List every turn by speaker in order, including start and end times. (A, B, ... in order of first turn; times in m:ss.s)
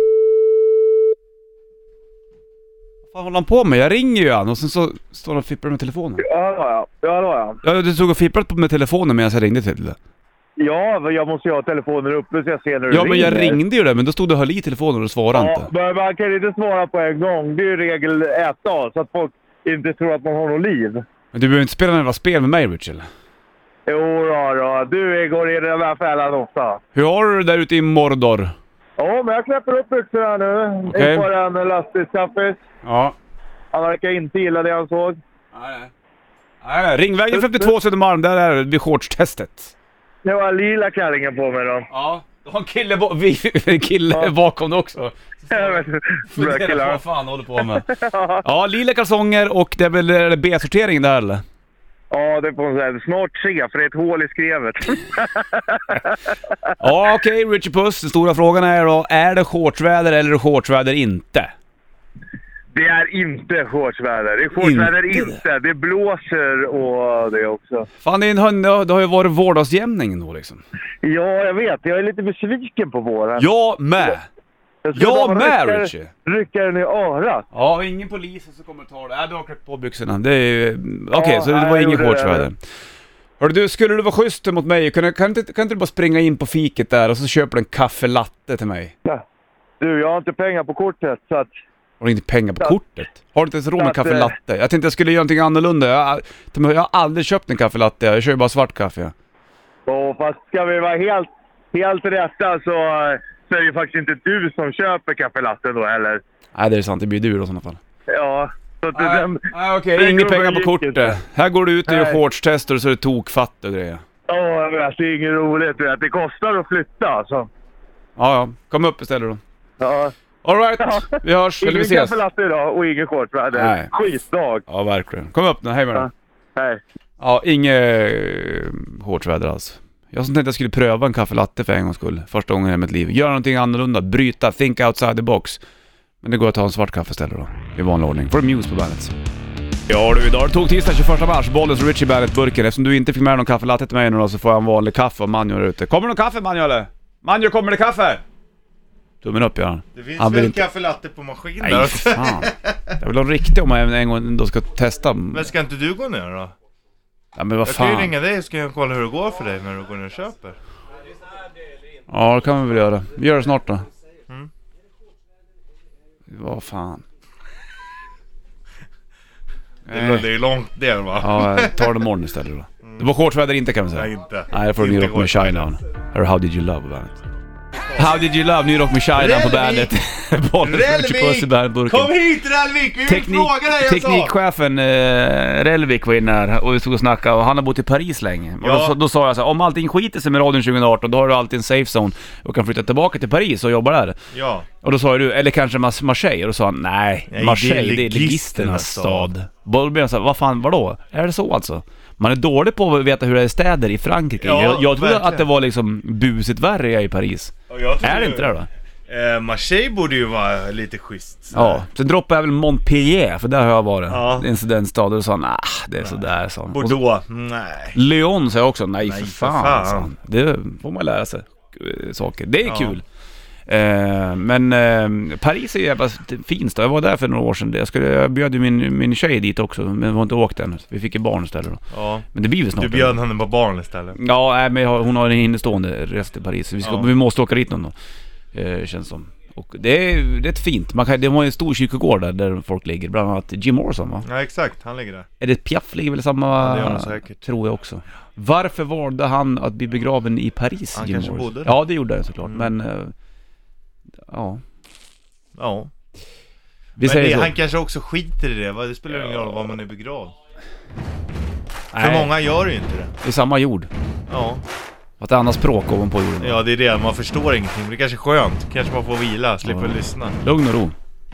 0:03.1-0:06.2 A
0:06.2-0:07.6 B
0:07.6-0:10.0 A
0:10.6-0:13.6 B
0:12.9-0:15.7 A
0:15.3-0:21.0 B
0:21.3-0:23.0 A
0:23.8-0:26.8 B
0:26.9-0:28.5 A
0:29.0-0:32.6 B
0:30.9-0:31.3 A
0:32.8-0:33.1 A
0:33.7-0:35.2 B
0:35.5-0:35.9 A
0:36.6-0:39.7 A
0:37.3-0:37.7 B
0:40.2-0:41.9 B
0:41.9-0:47.9 A
0:45.5-0:47.0 B
0:47.8-0:48.4 B
0:48.4-0:51.4 A
0:52.1-0:56.3 B
0:56.8-1:01.5 A
1:02.7-1:07.9 B
1:04.6-1:05.4 A
1:08.0-1:10.6 A
1:11.0-1:13.4 B
1:13.4-1:14.3 A
1:14.8-1:17.4 B
1:14.9-1:16.1 A
1:17.5-1:22.6 A
1:21.1-1:22.4 B
1:23.4-1:28.9 A
1:29.8-1:31.5 B
1:32.0-1:39.1 A
1:33.8-1:34.3 B
1:39.9-1:46.2 B
1:46.5-1:47.8 A
1:48.1-1:51.2 B
1:48.9-1:54.0 A
1:51.9-1:52.2 B
1:54.3-1:57.5 B
1:58.2-1:59.4 A
1:59.8-2:00.1 B
2:00.4-2:02.2 A
2:00.8-2:01.1 B
2:01.6-2:04.6 B
2:03.5-2:03.9 A
2:04.7-2:06.1 A
2:05.9-2:06.8 B
2:07.2-2:15.6 A
2:16.2-2:19.1 A
2:19.9-2:28.2 A
2:29.2-2:30.6 A
2:29.9-2:32.9 C
2:31.6-2:35.5 A
2:35.3-2:36.5 C
2:37.4-2:38.1 A
2:37.6-2:40.6 C
2:42.1-2:43.9 A
2:46.3-2:47.0 A
2:49.9-2:50.2 A
2:49.9-2:51.8 C
2:51.2-2:57.2 A
2:53.9-2:55.7 C
2:57.9-2:58.2 C
2:57.9-3:02.1 A
2:59.1-2:59.9 C
3:00.6-3:04.4 C
3:03.0-3:14.2 A
3:08.6-3:09.0 C
3:14.3-3:14.6 C
3:14.8-3:28.7 A
3:17.3-3:19.3 C
3:24.4-3:25.5 C
3:27.7-3:28.6 C
3:29.1-3:31.8 C
3:31.5-3:37.0 A
3:34.1-3:34.5 C
3:36.0-3:38.0 C
3:37.9-3:43.0 A
3:39.0-3:40.1 C
3:42.6-3:43.0 C
3:43.7-3:53.2 A
3:51.9-3:52.2 C
3:52.8-3:54.2 C
3:54.2-3:57.9 A
3:56.8-3:57.1 C
3:58.5-4:04.2 A
4:04.2-4:05.3 C
4:05.4-4:13.1 A
4:06.5-4:07.5 C
4:10.9-4:11.7 C
4:14.3-4:14.6 A
4:15.6-4:15.9 C
4:17.0-4:17.5 A
4:17.0-4:20.3 C
4:21.9-4:22.3 A
4:22.0-4:23.1 C
4:23.2-4:23.9 A
4:24.3-4:24.6 C
4:25.2-4:26.6 A
4:26.4-4:30.4 C
4:29.6-4:30.9 A